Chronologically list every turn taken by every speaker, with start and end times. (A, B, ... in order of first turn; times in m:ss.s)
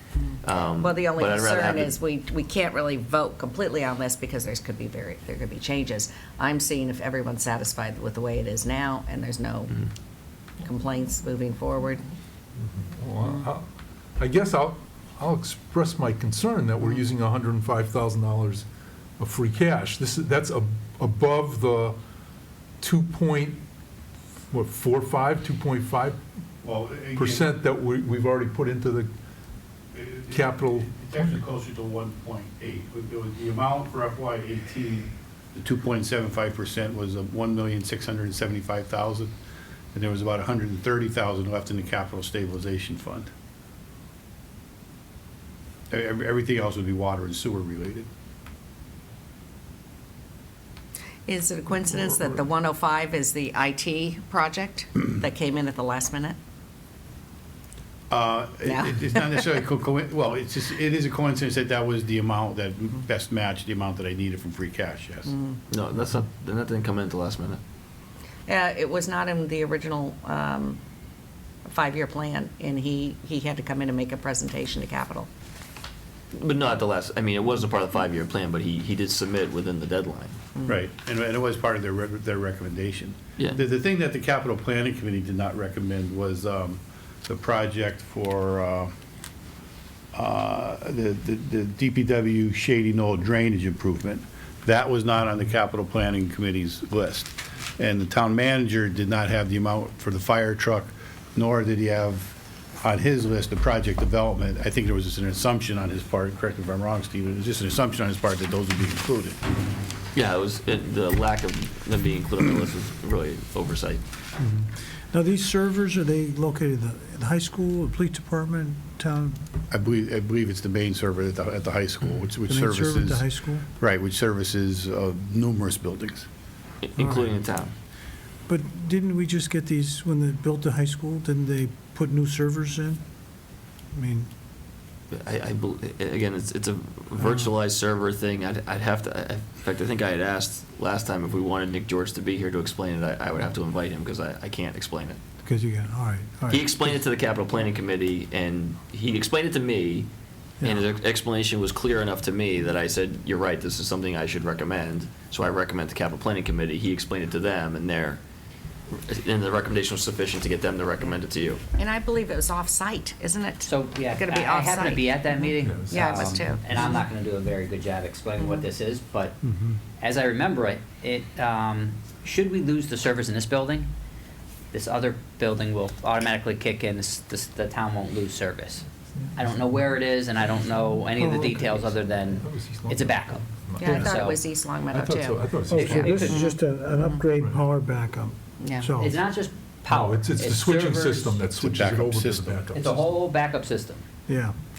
0:00.4-0:02.0 A
0:00.7-0:09.8 B
0:10.6-0:12.1 B
0:12.6-0:13.7 C
0:14.2-0:18.6 C
0:19.2-0:22.0 C
0:22.8-0:23.6 C
0:24.5-0:26.2 C
0:26.6-0:27.5 D
0:27.2-0:29.1 C
0:29.9-0:39.3 D
0:30.3-0:31.4 C
0:39.9-0:43.3 D
0:45.9-0:48.1 D
0:51.3-0:56.4 B
0:58.1-1:05.3 D
0:58.7-0:59.4 B
1:05.3-1:05.6 B
1:05.7-1:07.6 A
1:08.5-1:10.8 B
1:11.7-1:15.3 B
1:16.3-1:20.4 A
1:20.7-1:28.9 D
1:30.1-1:49.4 D
1:50.1-1:54.0 A
1:54.4-1:59.4 E
1:59.7-2:03.2 D
2:02.5-2:03.7 E
2:03.8-2:06.3 D
2:06.8-2:07.7 A
2:08.5-2:13.0 E
2:13.9-2:14.3 E
2:15.1-2:25.2 A
2:17.2-2:17.5 E
2:25.4-2:26.8 E
2:26.5-2:30.1 A
2:30.6-2:38.2 A
2:38.9-2:41.6 A
2:41.8-2:45.0 B
2:43.6-2:49.4 F
2:45.6-2:46.5 C
2:45.9-2:46.6 B
2:49.4-2:49.8 E
2:50.0-2:53.9 F
2:54.7-3:04.4 F
2:59.2-2:59.9 C
3:00.7-3:01.0 C
3:01.1-3:01.8 E
3:02.2-3:04.2 C
3:03.8-3:05.4 B
3:04.9-3:06.4 C
3:05.7-3:09.2 E
3:05.7-3:06.5 F
3:08.6-3:08.9 B
3:09.0-3:11.4 F
3:09.9-3:13.1 C
3:11.6-3:12.6 D
3:12.7-3:14.0 F
3:14.3-3:14.6 E